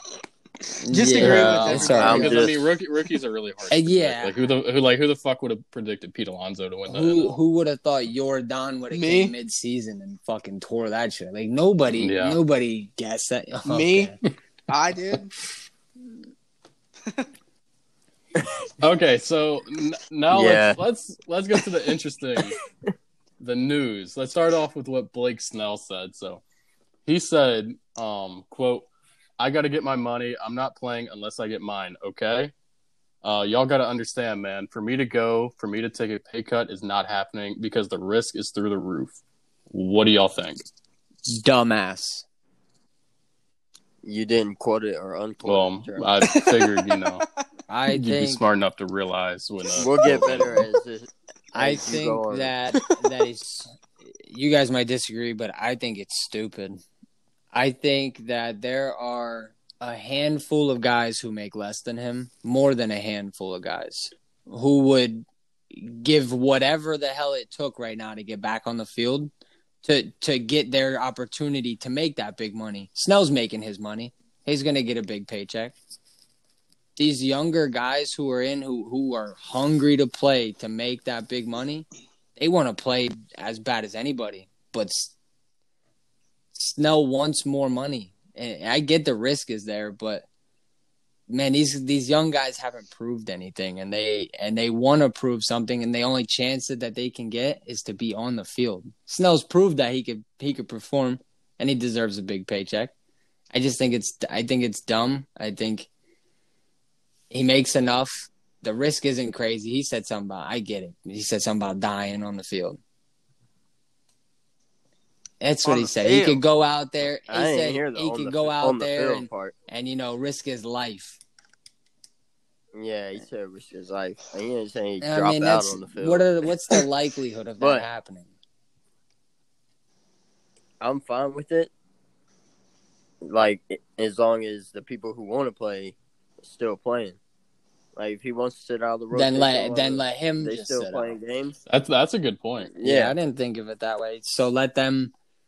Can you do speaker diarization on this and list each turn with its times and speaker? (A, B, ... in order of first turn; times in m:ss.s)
0:00.8-0:02.4 A
0:00.9-0:02.5 B
0:01.2-0:07.3 C
0:02.0-0:02.6 D
0:03.7-0:04.4 A
0:06.9-0:14.2 A
0:08.9-0:09.3 B
0:11.9-0:12.4 C
0:13.6-0:14.2 B
0:14.7-0:15.3 B
0:18.8-0:22.6 C
0:20.3-0:20.8 D
0:23.4-0:26.4 C
0:27.0-0:28.9 C
0:29.4-0:32.5 C
0:33.2-0:39.2 C
0:39.7-0:40.6 C
0:41.2-0:42.2 A
0:44.0-0:46.1 D
0:45.4-0:47.2 C
0:46.3-0:46.9 B
0:47.7-0:48.4 A
0:47.9-0:50.6 C
0:49.8-0:52.5 D
0:50.0-0:50.3 B
0:51.5-0:56.8 A
0:57.5-1:09.3 A
1:09.8-1:15.8 A
1:17.0-1:25.1 A
1:26.5-1:30.2 A
1:31.3-1:42.9 A
1:43.5-1:45.9 A
1:47.3-1:52.8 A
1:55.4-2:01.2 A
1:55.6-1:56.4 B
1:57.3-1:59.5 D
2:02.7-2:06.3 D
2:05.0-2:08.3 A
2:07.6-2:07.9 D
2:10.8-2:11.7 D
2:13.2-2:17.2 D
2:17.9-2:21.6 D
2:19.1-2:21.2 A
2:21.7-2:22.7 C
2:22.6-2:23.1 D
2:22.8-2:25.1 A